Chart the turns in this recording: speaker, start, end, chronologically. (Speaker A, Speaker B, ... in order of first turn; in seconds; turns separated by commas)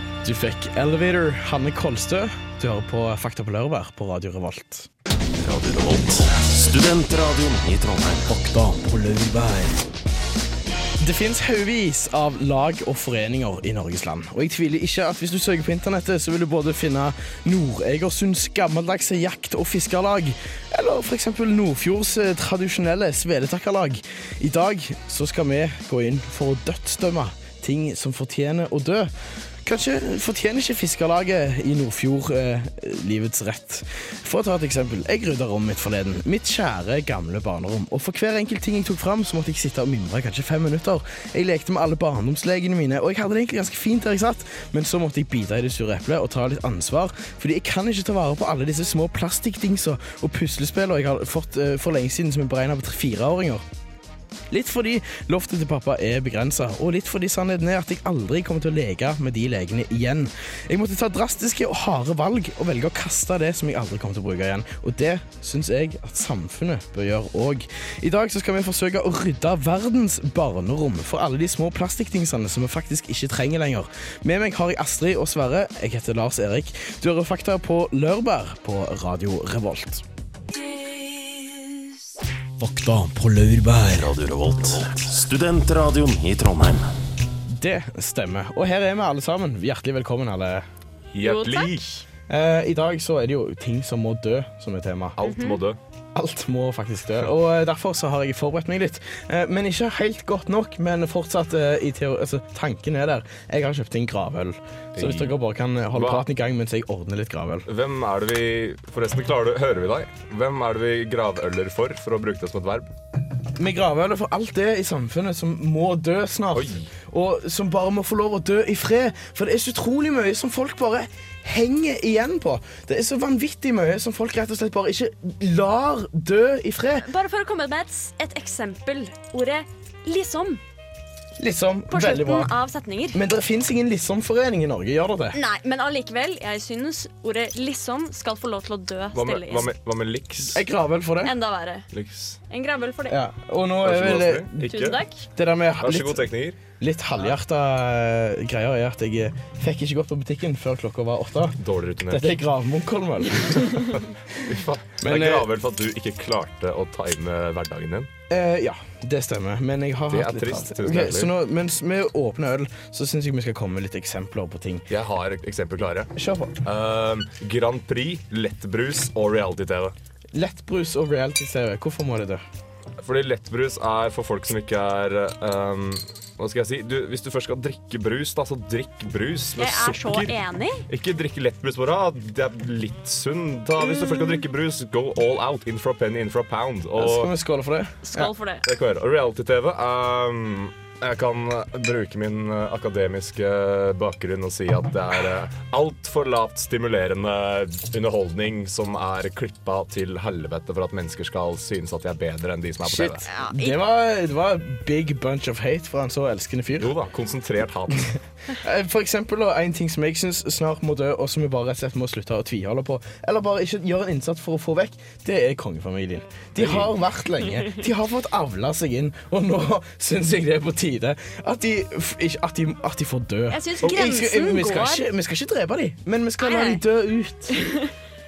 Speaker A: 0.2-4.9, Speaker B: 5.4-8.3, Speaker C: 8.3-9.8, Speaker A: 11.0-29.1, Speaker A: 29.6-53.6, Speaker A: 54.5-80.0, Speaker C: 82.6-84.1, Speaker B: 83.9-86.9, Speaker A: 87.5-90.7, Speaker D: 91.1-91.9, Speaker E: 91.2-92.0, Speaker A: 92.3-95.2, Speaker D: 95.2-95.8, Speaker E: 95.2-95.6, Speaker A: 96.1-107.7, Speaker D: 105.0-105.3, Speaker D: 105.9-106.2, Speaker D: 107.7-112.9, Speaker A: 113.5-127.1, Speaker D: 116.5-116.9, Speaker E: 127.0-130.6, Speaker A: 131.4-132.6, Speaker E: 131.9-133.2, Speaker A: 133.1-135.4, Speaker E: 135.3-139.7, Speaker D: 139.2-140.6, Speaker A: 140.4-141.4, Speaker E: 141.2-141.9, Speaker D: 141.9-142.4, Speaker E: 142.5-143.2, Speaker A: 143.1-144.6, Speaker D: 143.8-145.0, Speaker E: 144.7-145.2, Speaker A: 145.3-154.0, Speaker D: 145.8-146.6, Speaker D: 151.6-152.4, Speaker D: 153.5-158.1, Speaker A: 155.0-155.5, Speaker A: 158.3-164.9, Speaker D: 160.1-161.3, Speaker D: 164.9-169.9, Speaker A: 166.2-166.6, Speaker A: 170.3-172.4, Speaker D: 173.0-180.3, Speaker E: 179.6-180.8, Speaker D: 180.9-187.3, Speaker E: 184.0-184.4, Speaker A: 187.0-188.3, Speaker E: 188.0-188.6, Speaker D: 188.7-203.2, Speaker A: 202.8-206.9, Speaker E: 203.2-203.8, Speaker D: 206.8-208.1, Speaker A: 208.5-227.8, Speaker D: 216.6-216.9, Speaker E: 223.5-225.1, Speaker E: 226.4-226.8